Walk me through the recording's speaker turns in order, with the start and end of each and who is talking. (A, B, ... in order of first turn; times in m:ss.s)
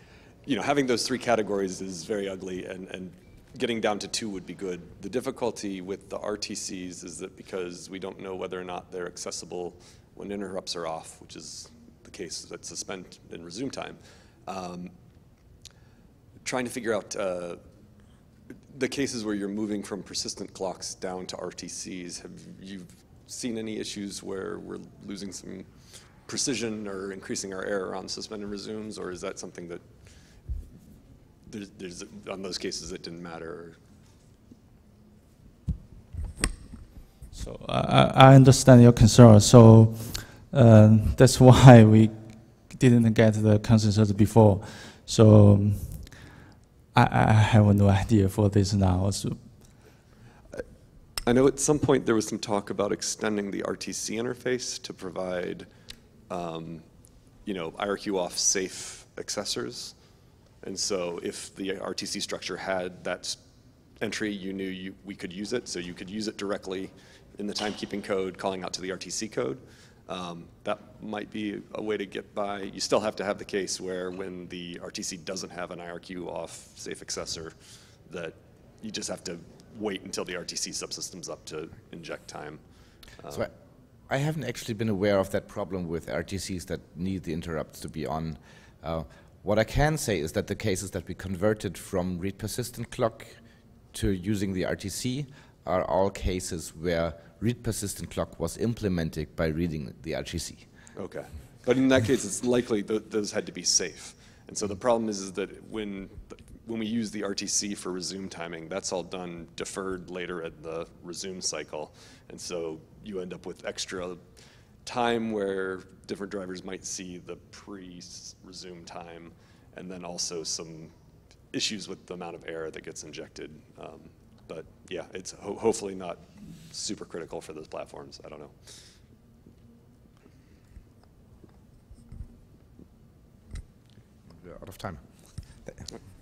0:00.4-0:14.9 A
0:16.4-0:17.6 A
0:18.7-0:30.0 A
0:31.5-0:33.8 A
0:37.3-0:46.1 B
0:46.9-0:49.5 B
0:51.2-0:55.7 A
0:56.3-0:56.9 A
0:57.4-1:00.0 A
1:00.6-1:03.4 A
1:04.0-1:22.6 A
1:23.1-1:23.5 A
1:24.1-1:40.7 C
1:40.9-1:54.2 A
1:54.8-2:00.9 A
2:01.5-2:08.7 A
2:14.3-2:15.9 C